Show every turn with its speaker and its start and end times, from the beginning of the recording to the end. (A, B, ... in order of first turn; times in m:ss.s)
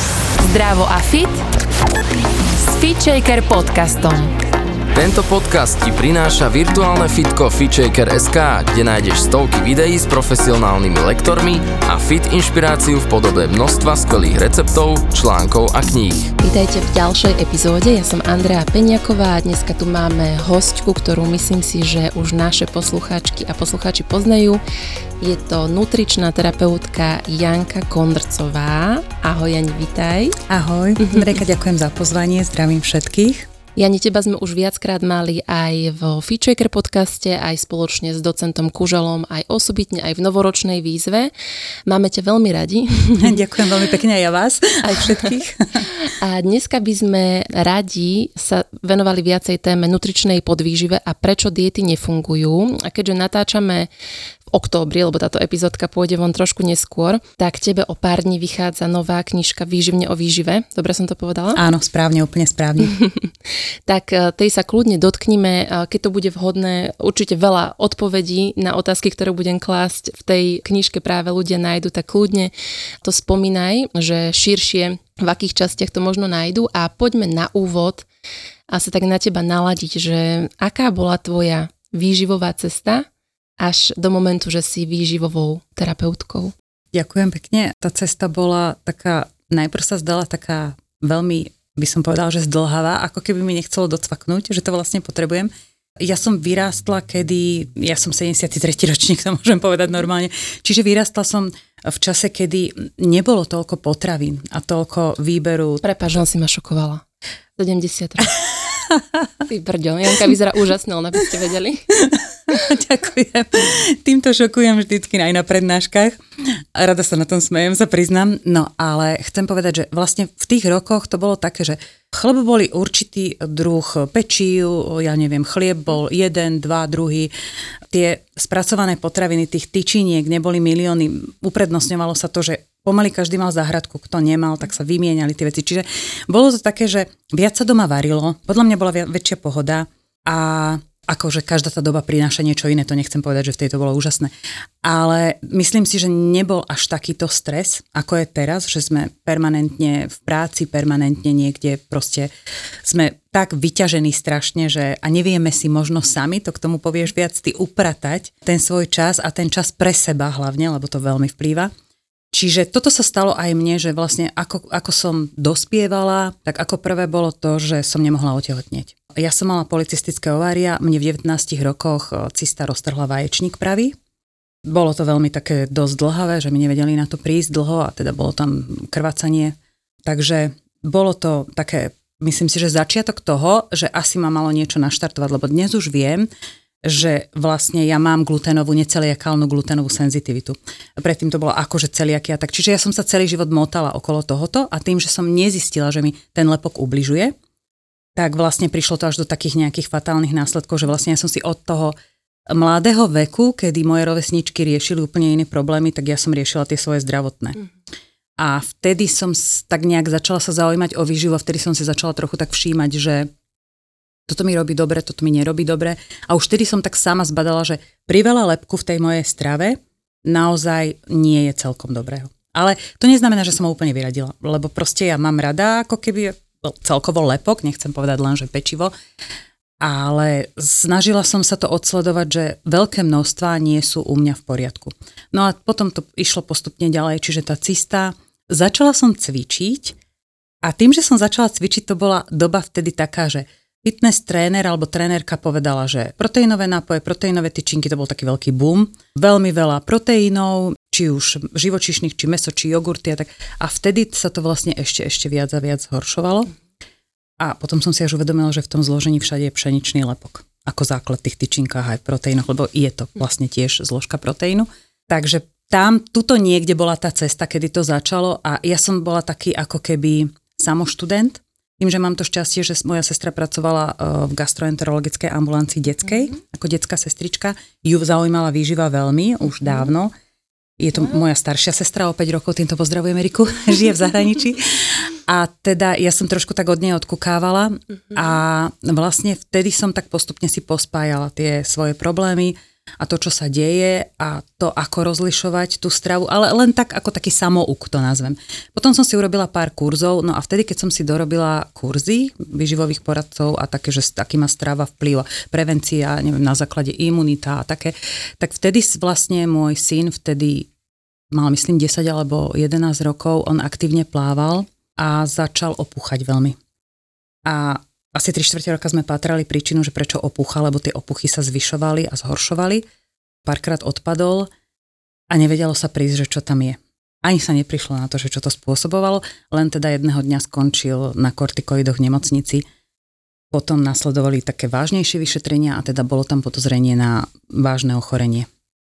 0:00.4-0:01.4 A
0:02.6-0:04.3 A
0:04.9-0:16.3 B
0:16.4-0:24.6 C
0:25.2-0:30.4 C
0:30.5-0:33.5 D
0:31.0-0:31.3 C
0:33.8-0:41.3 C
0:41.9-0:43.4 C
0:43.2-0:45.9 D
0:44.8-0:45.3 C
0:46.0-0:53.9 C
0:54.5-1:01.6 C
1:01.5-1:02.9 D
1:02.8-1:03.3 C
1:03.9-1:12.5 C
1:13.0-1:18.1 C
1:18.7-1:23.1 C
1:23.6-1:26.5 C
1:26.9-1:45.8 D
1:45.8-1:47.0 C
1:47.6-1:48.3 C
1:48.7-1:49.2 D
1:49.4-1:51.9 C
1:52.0-2:07.3 D
2:07.9-2:24.3 D
2:24.8-2:32.3 D
2:32.8-2:41.7 D
2:42.3-2:53.9 D
2:54.6-3:06.2 D
3:06.8-3:17.3 D
3:18.2-3:21.9 D
3:22.5-3:27.6 D
3:28.4-3:33.3 D
3:34.3-3:48.9 D
3:49.8-4:00.0 D
4:00.6-4:16.5 D
4:17.4-4:40.1 D
4:40.8-5:10.7 D
5:11.3-5:16.6 D
5:17.4-5:22.8 D
5:23.4-5:24.5 D
5:25.3-5:32.6 D
5:33.5-5:38.5 D